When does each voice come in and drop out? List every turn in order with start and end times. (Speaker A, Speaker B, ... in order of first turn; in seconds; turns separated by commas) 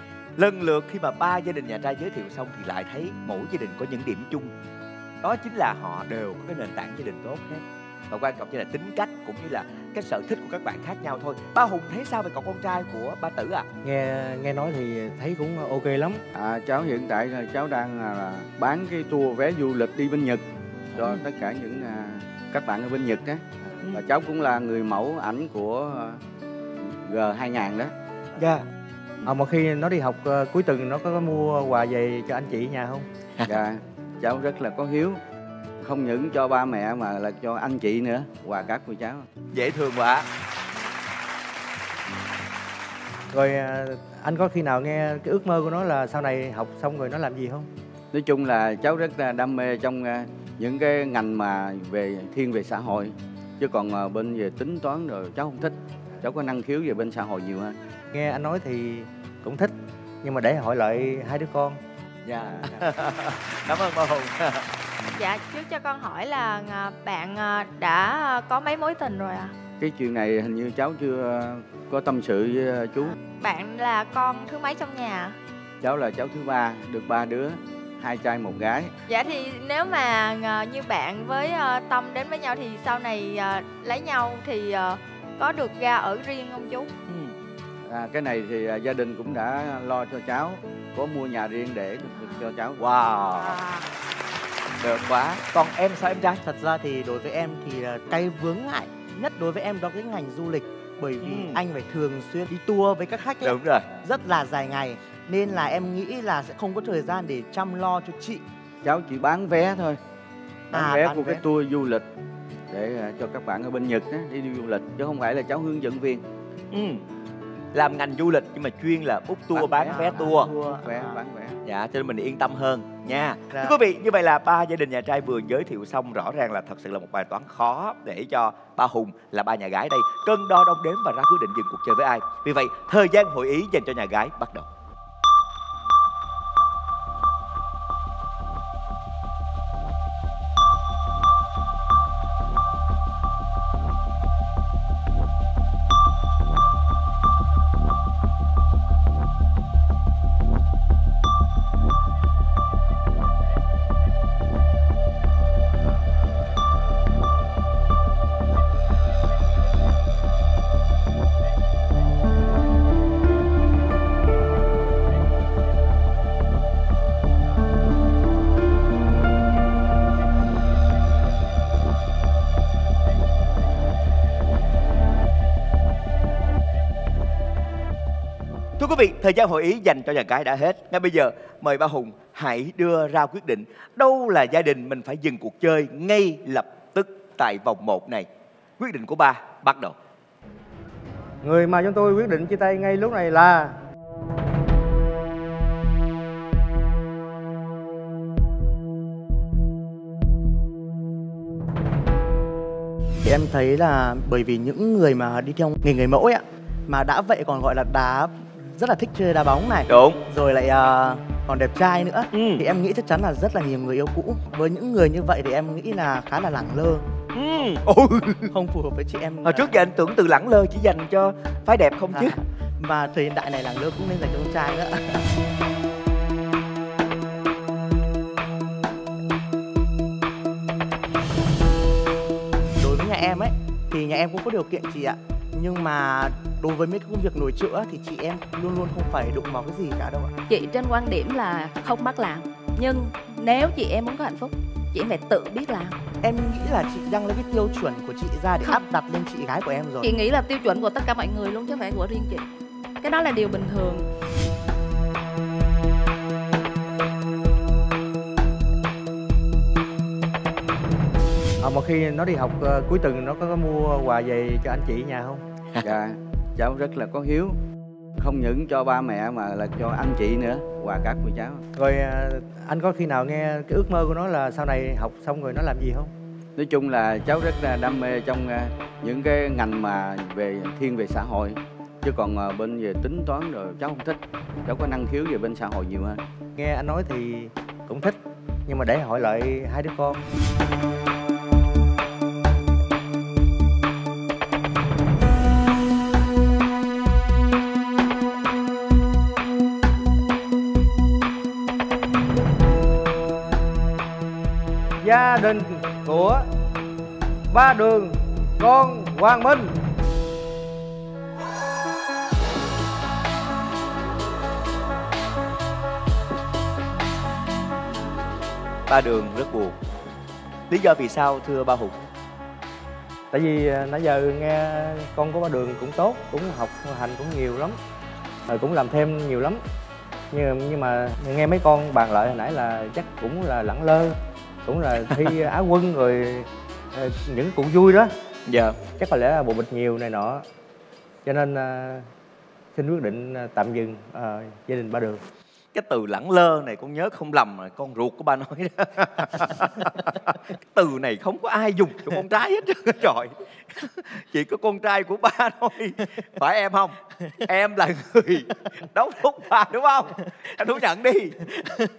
Speaker A: 0.4-4.5, Speaker A: 5.2-13.7, Speaker B: 13.8-16.2, Speaker C: 16.3-20.4, Speaker C: 20.9-26.2, Speaker C: 26.8-27.9, Speaker A: 28.4-28.6, Speaker B: 29.2-33.1, Speaker C: 33.5-35.2, Speaker C: 35.8-39.3, Speaker A: 39.5-40.3, Speaker B: 43.3-47.7, Speaker C: 48.1-57.8, Speaker B: 58.1-61.8, Speaker A: 62.2-64.7, Speaker D: 65.2-69.5, Speaker C: 69.8-73.2, Speaker D: 73.2-75.4, Speaker C: 75.8-78.9, Speaker D: 79.1-86.9, Speaker A: 87.1-87.3, Speaker C: 87.9-92.8, Speaker A: 92.8-93.6, Speaker D: 93.5-93.8, Speaker A: 94.8-96.4, Speaker E: 96.4-108.4, Speaker A: 101.2-101.6, Speaker A: 103.4-103.9, Speaker C: 108.8-110.0, Speaker E: 110.7-111.4, Speaker C: 110.7-112.0, Speaker C: 112.7-116.2, Speaker A: 116.7-117.0, Speaker A: 117.7-120.5, Speaker E: 119.6-121.2, Speaker C: 120.8-121.6, Speaker A: 121.6-134.7, Speaker A: 178.8-188.3, Speaker A: 188.8-190.0, Speaker B: 191.4-193.8, Speaker E: 203.2-217.1, Speaker A: 209.9-210.2, Speaker A: 212.3-212.6, Speaker A: 217.3-218.5, Speaker E: 218.5-219.8, Speaker A: 219.4-222.3, Speaker E: 222.1-225.2, Speaker E: 232.8-240.3, Speaker F: 240.5-246.0, Speaker E: 246.2-250.1, Speaker F: 250.0-252.5, Speaker F: 253.0-254.1, Speaker B: 261.6-265.4, Speaker C: 265.8-267.6, Speaker C: 268.2-271.6, Speaker B: 271.8-276.1, Speaker C: 276.6-286.2, Speaker B: 286.6-290.2, Speaker B: 305.0-306.5, Speaker B: 307.5-309.8, Speaker A: 318.9-319.7, Speaker A: 320.7-322.0, Speaker B: 323.3-327.8, Speaker B: 328.5-329.6, Speaker B: 330.3-338.1, Speaker A: 338.5-338.8, Speaker B: 339.0-340.4, Speaker B: 341.2-342.1, Speaker B: 342.8-345.2, Speaker A: 345.7-361.6